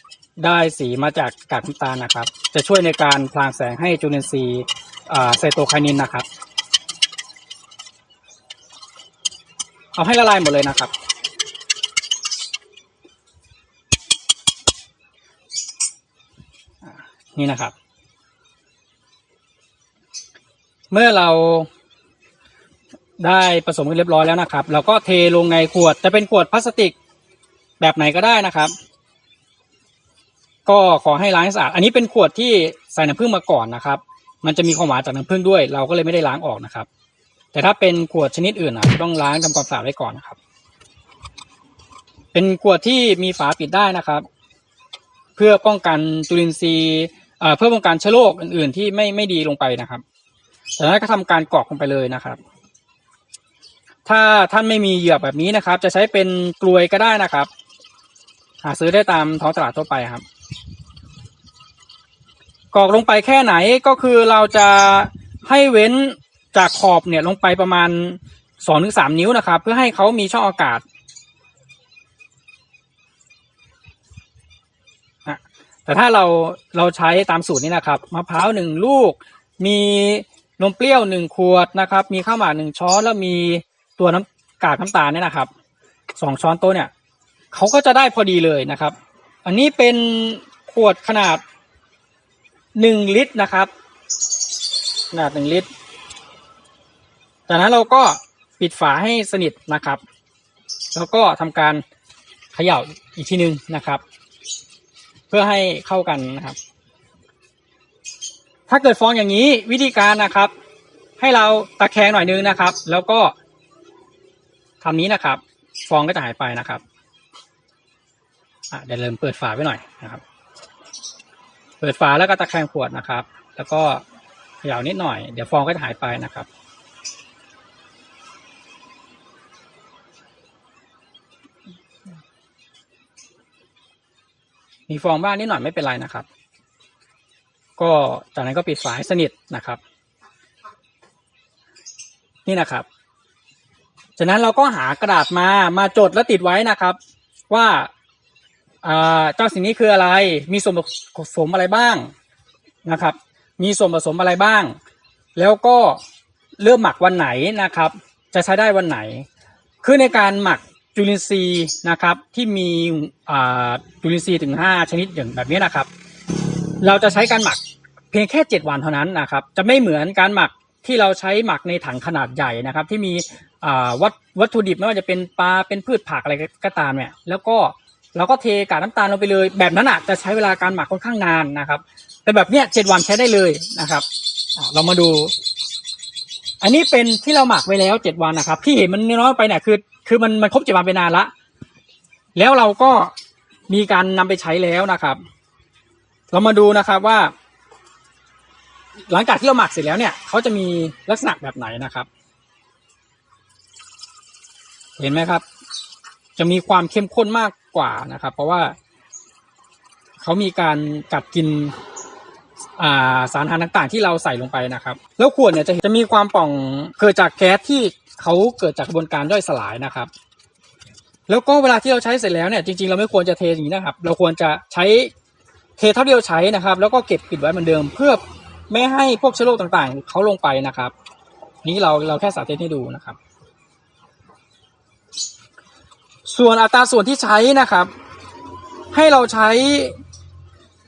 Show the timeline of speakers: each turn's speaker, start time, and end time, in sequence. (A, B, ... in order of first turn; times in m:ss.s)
0:00.4-0:06.3 A
0:09.9-0:10.9 A
0:16.8-0:17.7 A
0:20.9-0:21.7 A
0:23.2-0:26.9 A
0:27.8-0:28.7 A
0:30.6-0:36.9 A
0:37.5-0:40.4 A
0:42.3-0:44.2 A
0:45.4-0:50.0 A
0:50.8-0:52.4 A
0:54.0-0:57.5 A
0:58.6-1:00.2 A
1:02.7-1:10.8 A
1:15.2-1:25.5 A
1:26.2-1:26.9 A
1:27.5-1:31.4 A
1:32.7-1:33.7 A
1:35.1-1:35.7 A
1:37.5-1:40.0 A
1:40.9-1:41.8 A
1:42.5-1:44.0 A
1:45.3-1:46.6 A
1:48.7-1:50.5 A
1:51.2-1:53.3 A
1:54.8-1:56.8 A
1:58.7-2:00.2 A
2:01.8-2:04.0 A
2:04.6-2:06.5 A
2:14.9-2:16.3 A
2:17.8-2:19.8 A
2:22.4-2:22.8 A
2:24.2-2:27.0 A
2:27.5-2:27.9 A
2:28.8-2:32.1 A
2:32.8-2:34.8 A
2:35.4-2:36.0 A
2:36.6-2:39.3 A
2:39.8-2:45.9 A
2:46.8-2:47.6 A
2:48.1-3:04.0 A
3:04.6-3:05.3 A
3:06.6-3:11.3 A
3:12.3-3:13.1 A
3:13.7-3:15.2 A
3:16.3-3:17.3 A
3:19.1-3:22.1 A
3:25.0-3:25.4 A
3:26.4-3:28.8 A
3:30.2-3:31.7 A
3:32.8-3:40.1 A
3:41.3-3:45.1 A
3:45.8-3:50.9 A
3:51.6-3:53.2 A
3:56.2-3:57.9 A
3:58.9-4:00.0 A